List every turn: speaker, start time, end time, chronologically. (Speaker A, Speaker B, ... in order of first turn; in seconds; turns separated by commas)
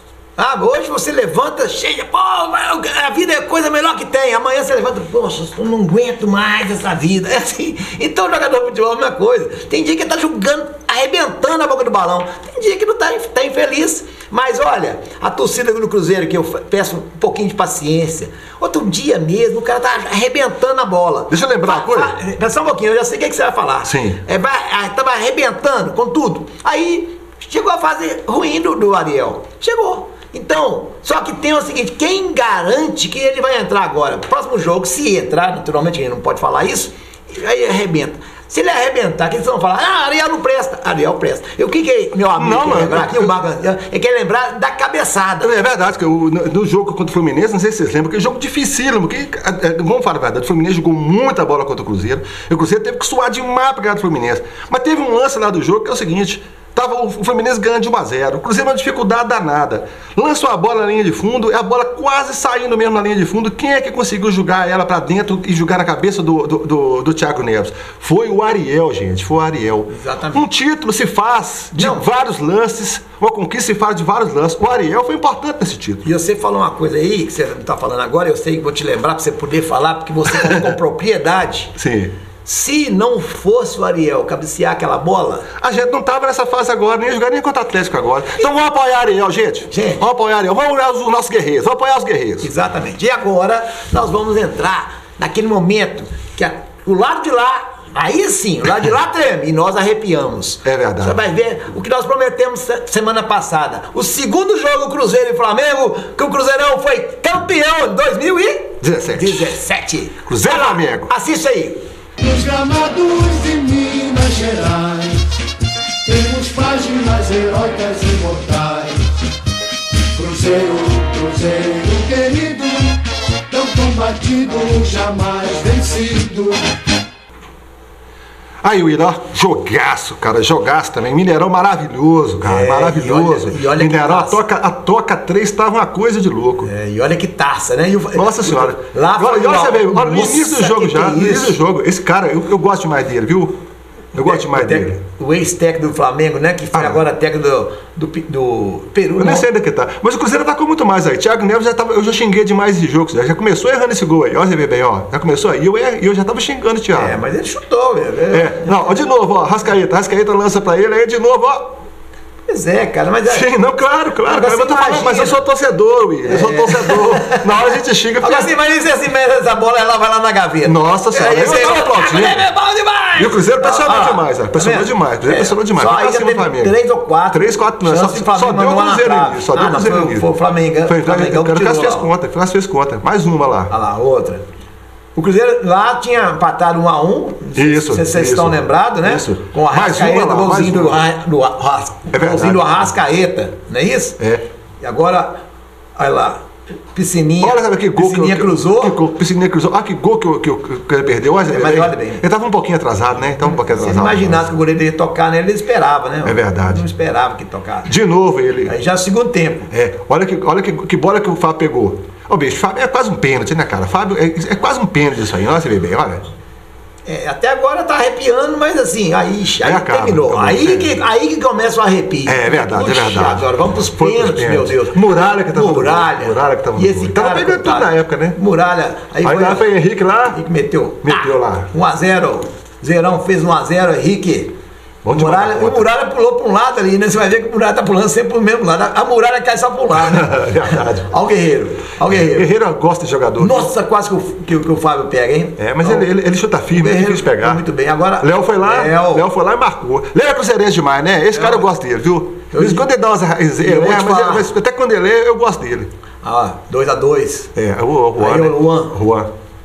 Speaker A: 0.4-45.5, Speaker B: 21.3-22.1, Speaker B: 23.8-24.2, Speaker B: 42.4-43.3, Speaker B: 45.4-76.0, Speaker A: 69.9-70.5, Speaker A: 71.8-72.1, Speaker A: 76.0-81.7, Speaker B: 80.3-80.6, Speaker B: 81.8-82.1, Speaker A: 82.5-85.5, Speaker B: 85.6-92.5, Speaker A: 89.7-90.0, Speaker A: 92.4-111.8, Speaker B: 100.6-101.2, Speaker B: 108.8-109.5, Speaker B: 110.3-111.1, Speaker C: 112.2-115.3, Speaker C: 116.1-119.0, Speaker C: 120.2-123.0, Speaker C: 123.5-126.6, Speaker B: 128.6-136.7, Speaker A: 132.4-134.4, Speaker A: 136.6-141.6, Speaker B: 138.2-143.6, Speaker B: 144.1-145.0, Speaker A: 144.2-149.4, Speaker B: 146.7-147.0, Speaker B: 149.2-157.2, Speaker A: 156.9-158.7, Speaker B: 158.3-161.8, Speaker A: 162.5-163.5, Speaker B: 163.3-168.5, Speaker A: 164.2-165.4, Speaker A: 166.3-167.4, Speaker A: 168.2-182.1, Speaker B: 170.6-172.5, Speaker B: 173.2-176.7, Speaker B: 177.3-180.3, Speaker B: 180.9-183.7, Speaker A: 183.7-184.4, Speaker A: 185.2-194.2, Speaker B: 187.6-191.0, Speaker B: 192.1-192.9, Speaker B: 194.2-194.4, Speaker A: 194.8-195.4, Speaker A: 196.0-196.4, Speaker A: 196.9-199.0, Speaker B: 197.4-204.5, Speaker A: 201.5-202.2, Speaker A: 203.4-207.9, Speaker B: 206.2-206.8, Speaker B: 207.8-208.7, Speaker A: 208.7-209.7, Speaker B: 209.7-216.2, Speaker A: 217.1-225.0, Speaker B: 219.6-220.9, Speaker B: 222.3-228.4, Speaker A: 225.5-229.7, Speaker B: 229.2-230.4, Speaker A: 230.3-234.5, Speaker B: 231.0-231.7, Speaker B: 235.0-235.9, Speaker A: 235.1-242.5, Speaker B: 239.9-241.1, Speaker B: 242.1-243.7, Speaker A: 243.4-246.1, Speaker B: 245.6-247.6, Speaker A: 246.8-249.3, Speaker B: 248.2-255.9, Speaker A: 251.3-251.7, Speaker A: 252.5-252.9, Speaker A: 253.6-254.5, Speaker A: 256.2-257.5, Speaker B: 257.6-259.3, Speaker A: 258.2-258.9